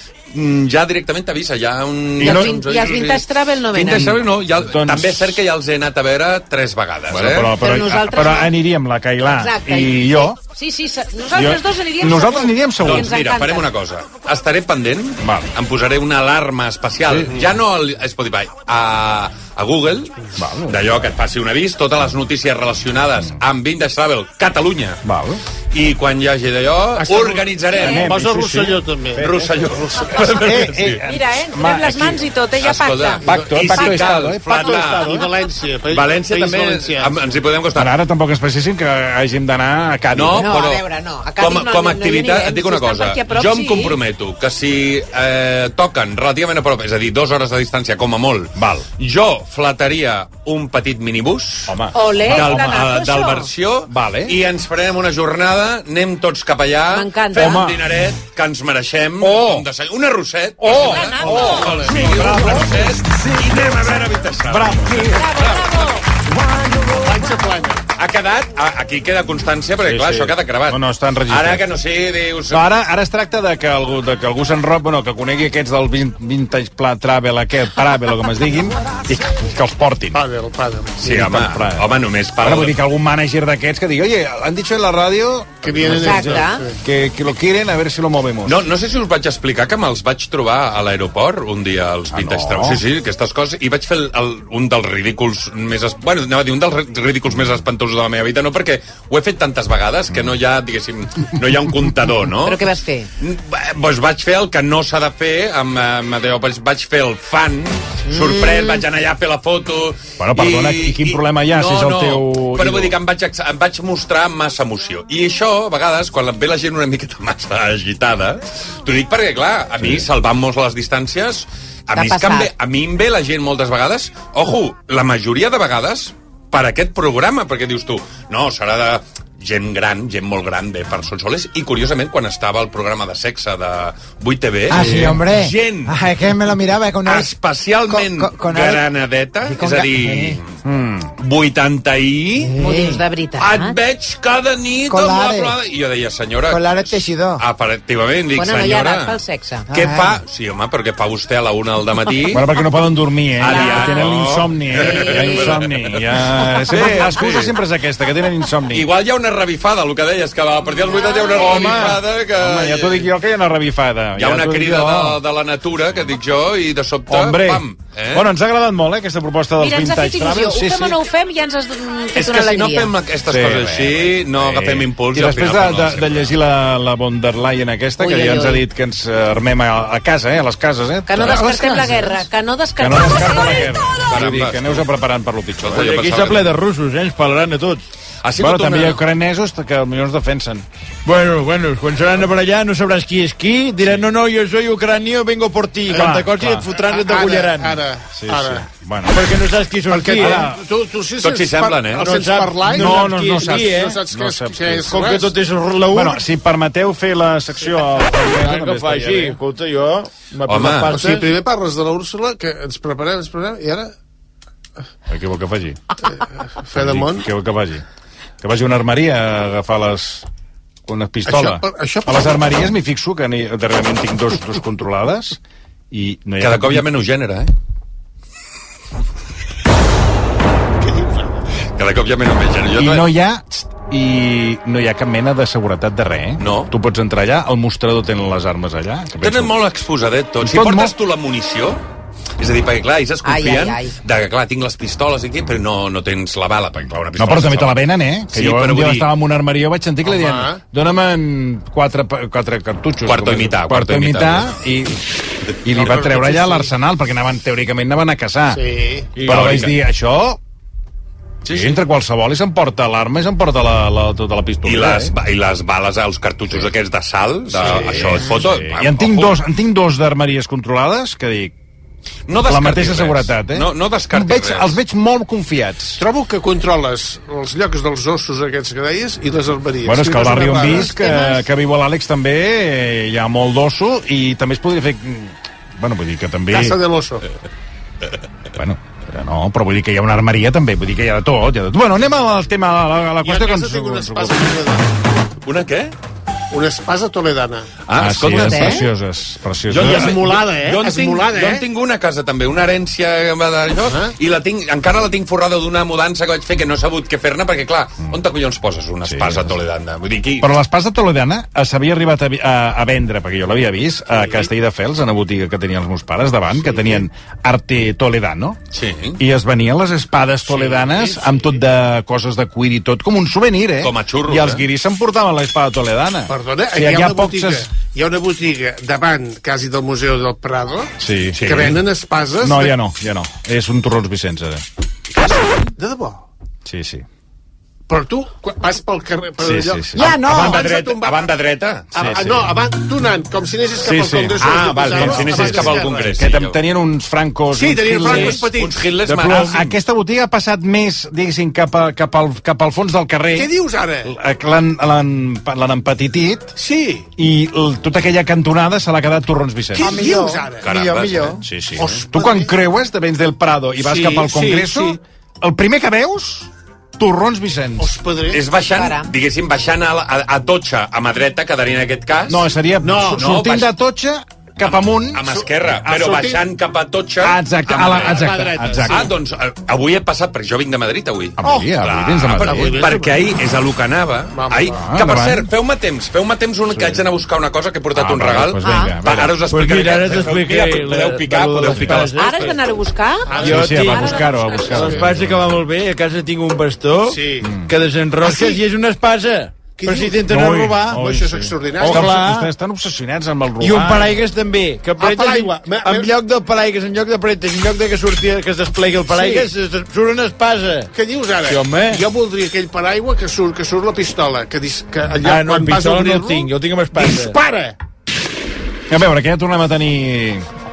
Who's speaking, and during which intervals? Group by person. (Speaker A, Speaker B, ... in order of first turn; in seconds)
Speaker A: 0.3-7.6, 12.8-20.1, 20.7-25.0, 25.7-28.1, 29.2-31.0, 32.6-35.2, 35.9-37.9, 40.1-40.8, 41.4-65.9, 67.9-72.7, 81.0-82.8, 88.4-102.7, 103.2-136.0, 137.0-142.7, 143.4-149.2, 149.7-152.4, 153.4-156.0, 156.7-157.5, 158.7-163.1, 164.2-168.3, 172.1-176.3, 184.1-184.8, 185.6-186.5, 188.2-189.0, 201.2-202.1, 210.5-211.0, 226.4-227.5, 231.8-233.1, 236.4-236.7, 239.2-241.8, 242.4-249.1, 253.0-254.5, 259.2-259.7, 261.4-261.8, 264.6-269.4, 272.3-274.8, 295.4-295.9, 297.9-298.8, 299.7-310.5, 318.7-319.2, 323.8-324.6, 331.4-331.8, 340.2-342.1, 344.4-346.6, 348.0-349.7, 360.6-361.4, 368.3-372.5, 373.1-373.7, 374.6-392.5
Speaker B: 2.2-2.5, 4.6-5.4, 7.1-10.4, 11.3-13.1, 15.2-15.5, 17.0-17.4, 20.4-20.9, 25.0-25.4, 27.7-29.5, 30.1-32.2, 33.2-35.1, 37.7-40.5, 48.5-48.9, 51.7-52.8, 53.9-54.4, 57.3-57.8, 59.2-59.6, 60.6-63.0, 64.4-65.3, 69.8-71.6, 72.5-80.2, 81.0-88.6, 92.1-92.8, 110.2-113.0, 119.8-120.1, 134.8-135.1, 152.3-158.9, 161.2-165.2, 167.1-171.0, 173.3-182.2, 182.8-186.1, 188.4-190.7, 195.9-196.7, 198.1-199.2, 200.1-200.6, 202.6-205.1, 205.9-209.4, 215.1-215.8, 216.7-217.8, 218.4-220.2, 220.9-225.4, 225.9-226.8, 232.8-239.5, 240.4-240.9, 247.2-255.0, 255.6-258.6, 259.2-260.4, 261.5-265.1, 267.5-271.5, 272.4-276.0, 279.8-286.8, 288.5-294.5, 298.0-300.3, 309.1-309.6, 310.4-318.6, 319.2-327.6, 331.0-331.7, 332.4-334.6, 336.6-337.1, 339.4-340.6, 342.0-342.5, 343.8-348.5, 349.1-353.5, 354.0-356.5, 357.2-360.0, 361.4-367.9, 372.3-375.3, 377.2-379.1, 381.4-382.9, 384.7-385.5, 386.7-387.0, 387.9-389.4, 391.7-392.1, 393.4-395.6, 397.4-397.7, 400.2-404.2, 418.9-420.4
Speaker C: 2.2-4.2, 7.6-8.5, 9.2-13.7, 31.0-34.0, 40.3-44.0, 51.9-53.5, 56.9-57.6, 60.7-61.8, 65.1-66.0, 85.9-86.6, 102.4-103.1, 121.9-122.5, 142.6-143.8, 148.3-149.6, 153.5-154.0, 155.2-155.4, 160.9-161.3, 169.6-172.9, 178.0-178.6, 181.1-183.7, 243.2-243.9, 298.3-298.8, 368.7-369.1, 388.6-388.9, 392.1-394.9
Speaker D: 27.0-27.4, 28.0-30.0, 34.8-37.1, 67.0-67.8, 80.1-81.0, 85.6-86.8, 195.9-198.7, 199.9-205.4, 210.9-213.9, 216.6-217.2, 221.2-222.5, 230.8-231.4, 250.0-250.6, 255.8-256.7, 258.5-259.2, 267.6-268.2, 276.0-281.1, 286.5-287.2, 293.2-294.9, 296.5-297.7, 299.8-301.6, 303.9-304.1, 314.2-314.5, 316.6-317.0, 320.5-321.5, 326.3-330.9, 331.4-332.7, 335.8-336.2, 337.9-341.2, 341.9-346.1, 347.5-348.8, 353.3-354.1, 356.6-357.1, 359.8-360.7, 361.8-362.5, 363.8-365.0, 367.8-368.4, 372.8-373.2, 375.9-376.4, 377.7-379.0, 382.5-383.1, 384.3-384.8, 393.2-395.1, 397.0-397.6, 398.2-398.6, 399.8-400.3, 400.8-402.2, 405.0-406.1, 409.1-409.4, 410.9-417.8
Speaker E: 134.7-137.3, 137.9-138.8, 139.4-140.4, 142.4-143.0, 144.9-145.5, 146.5-147.4, 149.7-150.2, 340.0-340.6, 359.8-361.4
Speaker F: 185.8-187.8, 191.0-197.8, 199.1-200.4, 202.0-203.9, 204.9-206.2, 208.2-211.3, 389.5-392.5, 393.4-394.1, 394.7-401.0, 401.8-402.5, 403.6-410.9, 411.5-412.0, 415.2-417.3